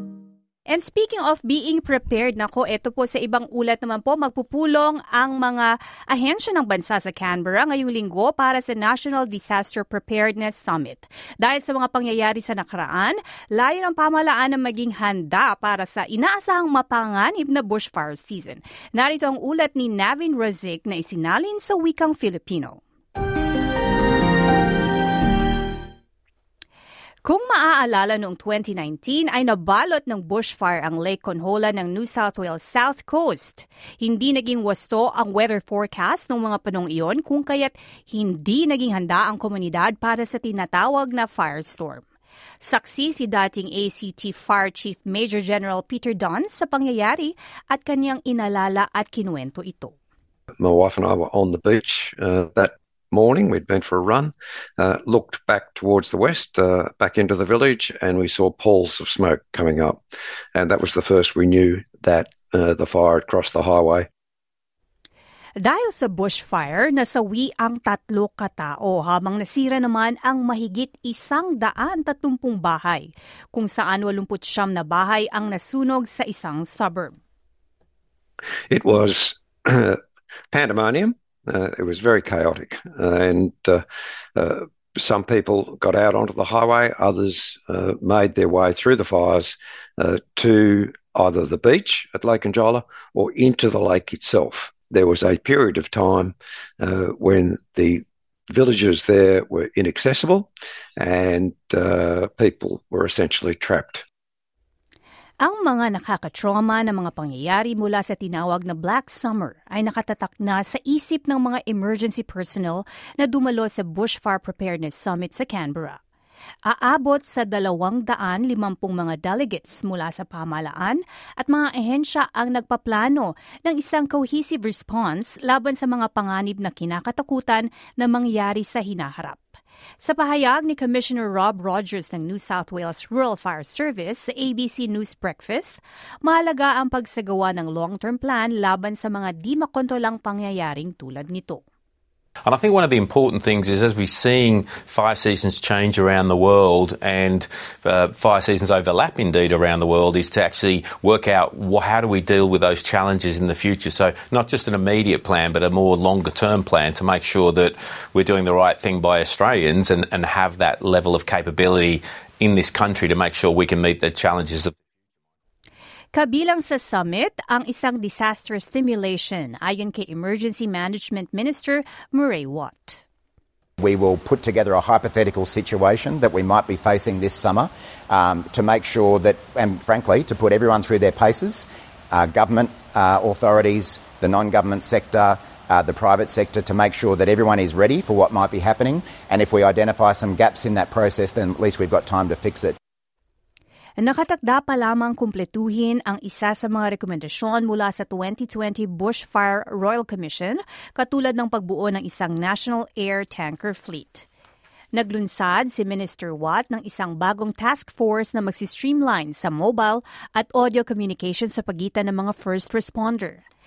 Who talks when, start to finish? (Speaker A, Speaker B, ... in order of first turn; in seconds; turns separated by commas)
Speaker A: 0.7-22.8, Speaker A: 27.2-42.0, Speaker A: 42.6-50.0, Speaker B: 50.6-60.0, Speaker B: 60.5-64.1, Speaker A: 65.6-77.2, Speaker B: 78.7-80.0, Speaker B: 80.5-83.8, Speaker B: 84.3-104.0, Speaker A: 105.4-116.0, Speaker A: 116.7-129.4, Speaker A: 130.0-141.6, Speaker C: 142.4-164.7, Speaker A: 166.1-173.0, Speaker D: 173.8-192.8, Speaker A: 194.0-204.3, Speaker A: 204.9-213.4